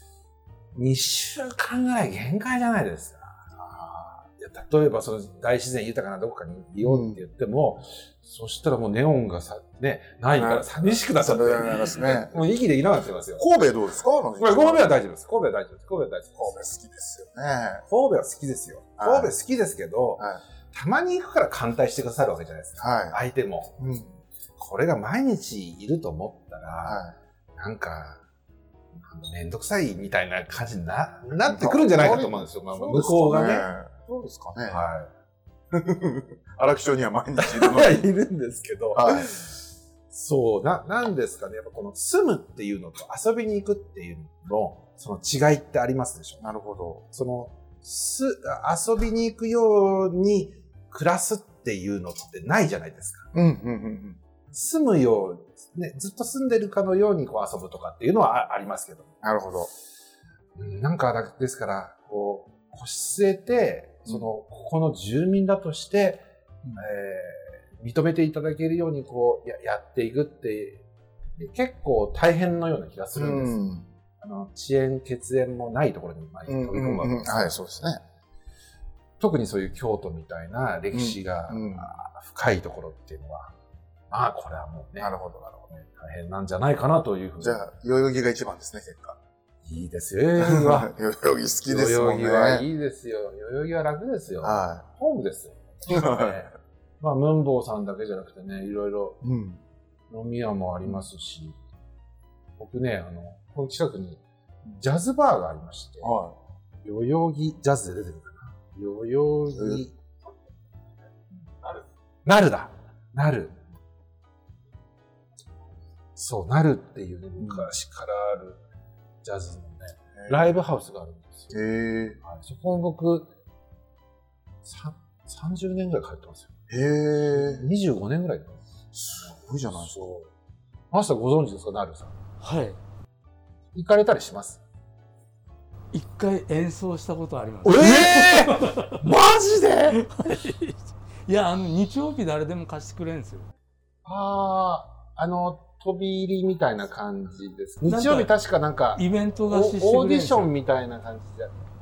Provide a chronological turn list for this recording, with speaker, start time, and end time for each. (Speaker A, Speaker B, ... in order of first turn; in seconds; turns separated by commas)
Speaker A: 0.7-3.4, Speaker B: 3.6-4.2, Speaker A: 4.4-13.4, Speaker B: 6.8-7.2, Speaker B: 10.3-12.4, Speaker B: 13.4-15.0, Speaker A: 14.4-16.6, Speaker B: 16.4-17.8, Speaker A: 17.9-23.8, Speaker B: 19.0-19.3, Speaker B: 22.8-23.1, Speaker B: 23.8-24.2, Speaker A: 24.6-27.0, Speaker B: 26.8-27.1, Speaker A: 27.6-28.2, Speaker A: 29.0-33.7, Speaker B: 31.4-34.8, Speaker A: 34.7-35.1, Speaker B: 35.7-38.0, Speaker A: 37.4-39.6, Speaker B: 38.9-39.3, Speaker A: 40.1-46.4, Speaker B: 46.4-47.0, Speaker A: 47.1-53.3, Speaker B: 53.3-54.2, Speaker A: 54.5-59.1, Speaker B: 59.2-59.7, Speaker A: 60.5-66.2, Speaker A: 66.8-70.8, Speaker A: 71.4-73.6, Speaker B: 73.1-73.9, Speaker A: 74.2-77.5, Speaker B: 76.5-78.0, Speaker A: 79.2-83.5, Speaker B: 80.9-81.9, Speaker A: 84.1-85.2, Speaker B: 85.0-85.7, Speaker A: 85.7-87.7, Speaker B: 87.4-89.2, Speaker A: 89.6-90.9, Speaker B: 90.4-92.7, Speaker A: 91.7-99.2, Speaker B: 94.4-94.8, Speaker B: 95.9-96.4, Speaker B: 99.2-99.6, Speaker A: 100.1-101.6, Speaker A: 102.6-106.2, Speaker B: 106.0-106.4, Speaker A: 106.8-110.0, Speaker B: 109.5-109.8, Speaker A: 112.2-113.6, Speaker A: 116.2-118.6, Speaker B: 117.4-117.7, Speaker A: 119.2-121.6, Speaker B: 120.2-120.5, Speaker B: 121.5-122.2, Speaker A: 122.2-123.3, Speaker A: 124.6-126.5, Speaker B: 126.7-127.6, Speaker A: 127.3-128.6, Speaker B: 128.9-130.0, Speaker A: 129.1-130.3, Speaker A: 130.9-132.2, Speaker C: 132.4-132.8, Speaker A: 133.7-134.6, Speaker C: 135.9-139.0, Speaker A: 137.6-140.0, Speaker C: 140.0-143.5, Speaker A: 144.0-151.7, Speaker C: 147.8-148.3, Speaker C: 148.9-150.5